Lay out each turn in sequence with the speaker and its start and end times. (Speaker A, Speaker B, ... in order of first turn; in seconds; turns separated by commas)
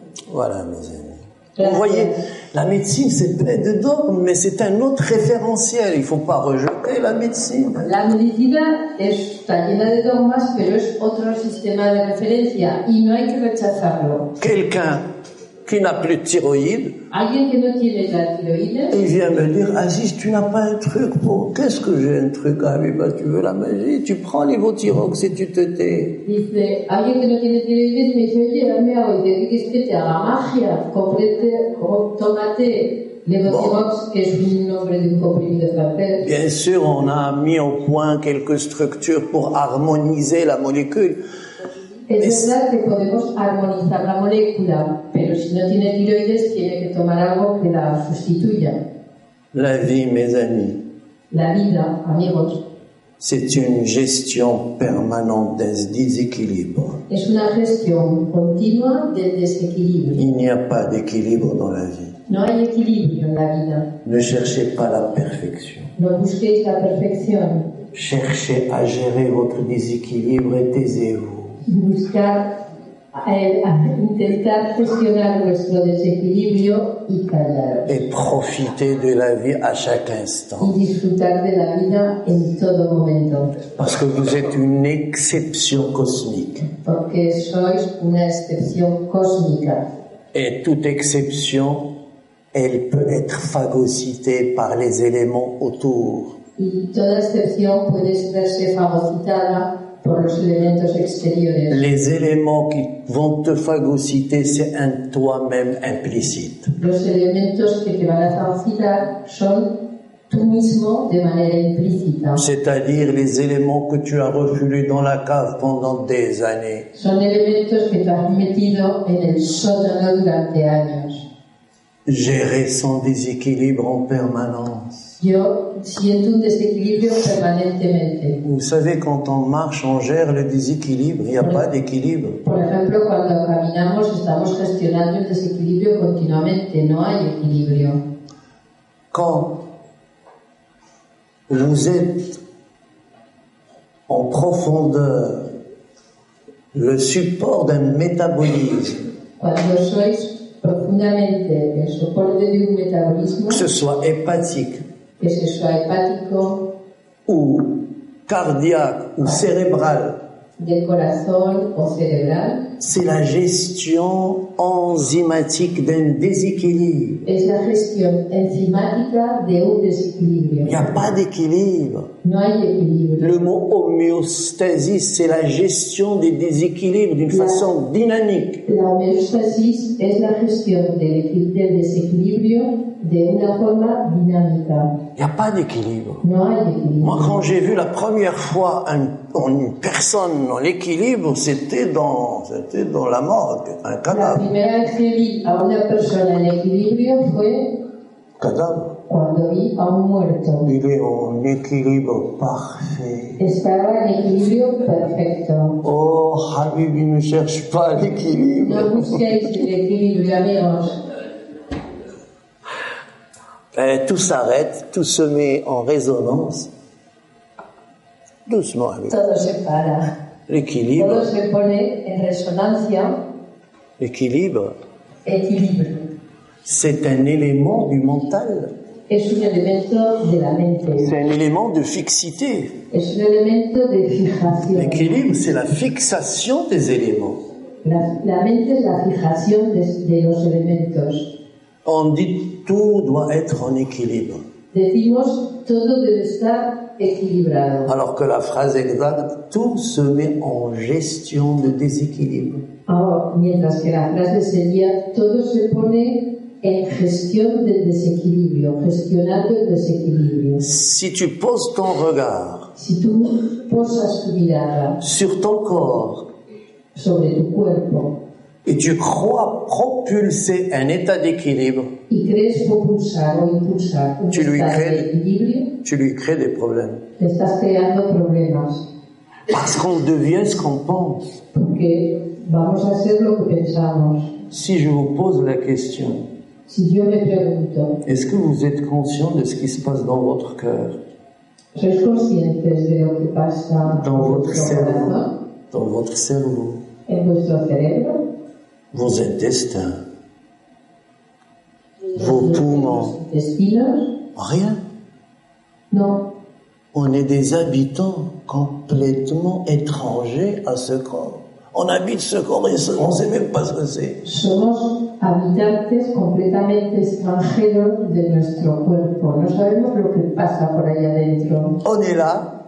Speaker A: 0.3-7.9, Speaker B: 1.6-2.2, Speaker B: 7.8-14.3, Speaker A: 14.4-15.0, Speaker A: 15.6-16.9, Speaker B: 17.1-19.0, Speaker A: 18.9-26.2, Speaker B: 26.2-36.3, Speaker A: 33.4-33.8, Speaker A: 36.2-41.2, Speaker B: 42.1-48.8, Speaker A: 42.2-42.5, Speaker A: 49.5-50.8, Speaker B: 51.3-52.6, Speaker A: 53.2-57.0, Speaker B: 57.1-60.2, Speaker A: 60.1-62.2, Speaker B: 62.3-63.9, Speaker A: 64.0-65.9, Speaker B: 66.0-67.7, Speaker A: 67.9-71.6, Speaker B: 71.6-72.5, Speaker B: 73.1-78.0, Speaker A: 77.9-80.7, Speaker B: 80.6-83.5, Speaker A: 83.7-86.7, Speaker B: 86.8-89.8, Speaker A: 90.3-91.9, Speaker A: 92.5-96.3, Speaker B: 96.6-101.8, Speaker A: 101.7-106.7, Speaker B: 106.8-109.7, Speaker B: 110.3-112.4, Speaker A: 112.3-116.9, Speaker B: 116.9-121.2, Speaker A: 122.0-125.2, Speaker B: 125.2-128.4, Speaker A: 128.4-132.4, Speaker B: 132.4-138.0, Speaker A: 139.1-139.6, Speaker A: 141.5-142.4, Speaker A: 144.1-145.5, Speaker A: 146.7-149.1, Speaker B: 149.4-153.6, Speaker A: 153.5-154.8, Speaker B: 155.2-156.7, Speaker A: 157.3-160.2, Speaker B: 160.6-162.7, Speaker A: 162.8-167.2, Speaker B: 167.2-170.9, Speaker A: 170.6-172.1, Speaker B: 172.2-173.3, Speaker A: 173.2-178.6, Speaker B: 177.3-177.6, Speaker B: 178.7-184.9, Speaker A: 185.2-186.2, Speaker B: 186.2-187.4, Speaker A: 187.0-194.5, Speaker B: 194.1-197.7, Speaker A: 198.4-198.9, Speaker B: 199.1-200.7, Speaker A: 200.6-203.4, Speaker B: 203.4-205.8, Speaker A: 205.8-209.3, Speaker B: 208.6-211.0, Speaker A: 213.7-216.7, Speaker A: 218.4-219.2, Speaker B: 219.1-220.1, Speaker A: 220.5-221.3, Speaker B: 221.0-223.2, Speaker A: 224.0-224.8, Speaker B: 225.2-226.1, Speaker A: 226.6-228.7, Speaker B: 229.1-231.1, Speaker A: 231.0-232.7, Speaker B: 232.9-235.1, Speaker A: 234.7-237.4, Speaker B: 237.8-241.3, Speaker A: 241.8-244.4, Speaker B: 244.7-247.9, Speaker A: 247.9-252.6, Speaker B: 252.9-260.6, Speaker A: 260.6-262.7, Speaker B: 262.8-265.0, Speaker A: 265.0-266.3, Speaker B: 266.9-268.2, Speaker A: 268.6-271.9, Speaker B: 272.1-275.7, Speaker A: 274.3-275.1, Speaker A: 275.8-277.0, Speaker B: 277.2-278.9, Speaker A: 279.5-281.4, Speaker B: 281.5-284.4, Speaker A: 284.5-286.2, Speaker B: 286.7-288.0, Speaker A: 288.0-291.0, Speaker B: 291.7-295.3, Speaker A: 293.8-296.8, Speaker B: 297.1-298.2, Speaker A: 298.9-300.0, Speaker B: 302.1-304.1, Speaker A: 302.1-303.1, Speaker A: 304.4-304.8, Speaker B: 305.9-306.3, Speaker A: 306.9-314.2, Speaker B: 314.2-321.8, Speaker A: 321.8-322.5